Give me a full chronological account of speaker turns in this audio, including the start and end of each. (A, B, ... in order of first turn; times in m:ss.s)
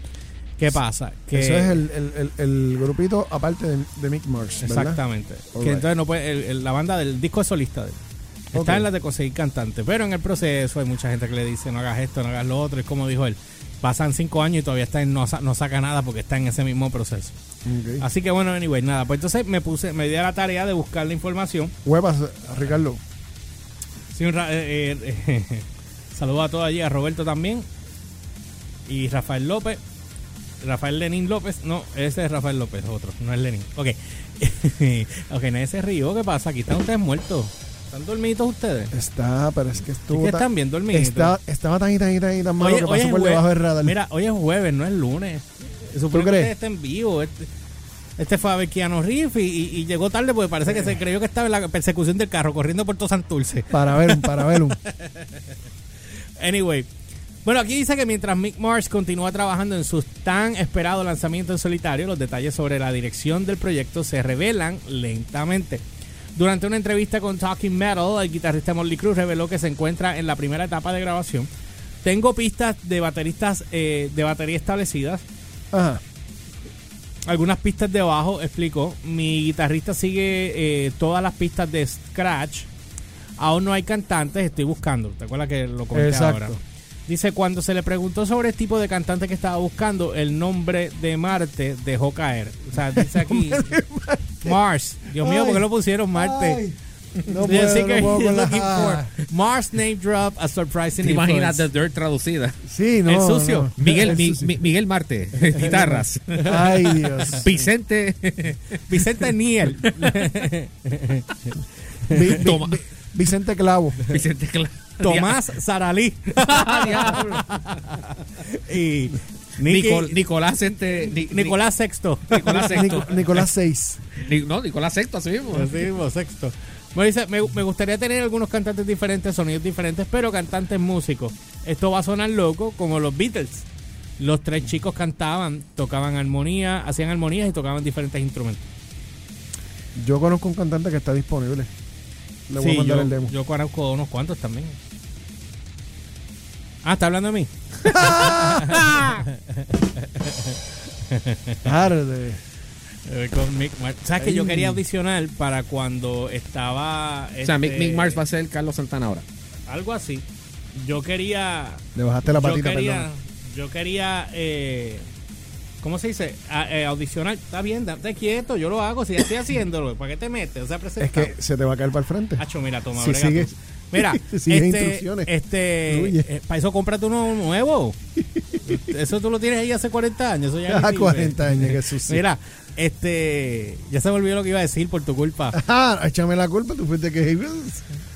0:00.6-0:01.8 A
0:01.3-0:05.0 B
0:04.6-0:08.0 A
0:05.5-0:05.8 B
0:08.5-0:08.9 B
0:08.5-0:17.3 A
0:17.6-0:18.0 B
0:18.0-0:21.7 A
0:21.8-0:23.0 B
0:24.1-0:27.6 A
0:28.8-0:29.8 A
0:30.6-0:38.9 A
0:38.9-0:44.0 B
0:40.1-0:41.4 A
0:42.6-0:47.5 A
0:46.1-0:46.5 B
0:48.2-0:55.4 A
0:53.7-0:54.8 B
0:56.4-0:56.9 A
0:57.4-1:05.8 A
1:06.4-1:11.5 A
1:12.0-1:15.2 A
1:15.7-1:16.0 B
1:17.2-1:22.7 A
1:23.4-1:33.8 A
1:25.9-1:26.6 B
1:32.8-1:34.6 B
1:34.4-1:36.6 A
1:35.2-1:39.1 B
1:37.4-1:41.6 A
1:41.0-1:42.6 C
1:42.6-1:44.5 B
1:43.1-1:44.1 A
1:43.8-1:46.7 C
1:45.6-1:47.4 A
1:46.5-1:47.7 B
1:47.4-1:49.2 C
1:48.9-1:52.3 A
1:49.8-1:50.3 C
1:52.1-1:54.2 B
1:52.4-1:52.8 C
1:54.1-1:55.4 C
1:55.0-2:00.2 A
1:56.4-1:57.5 C
1:59.6-2:01.6 C
2:01.3-2:03.1 A
2:02.3-2:03.4 C
2:02.6-2:04.0 B
2:04.2-2:05.9 C
2:05.5-2:13.7 A
2:14.2-2:18.6 A
2:20.0-2:21.7 B
2:22.5-2:23.3 B
2:22.5-2:24.8 A
2:26.8-2:31.8 A
2:27.8-2:29.0 B
2:31.6-2:32.4 B
2:33.0-2:38.2 A
2:34.2-2:34.8 B
2:37.4-2:39.2 C
2:39.7-2:45.0 A
2:41.9-2:43.1 B
2:45.8-2:51.3 A
2:51.0-2:52.4 B
2:52.4-2:58.0 A
2:52.9-2:55.3 B
2:55.9-2:56.3 B
2:58.6-3:05.6 A
3:00.7-3:02.2 B
3:05.5-3:07.8 B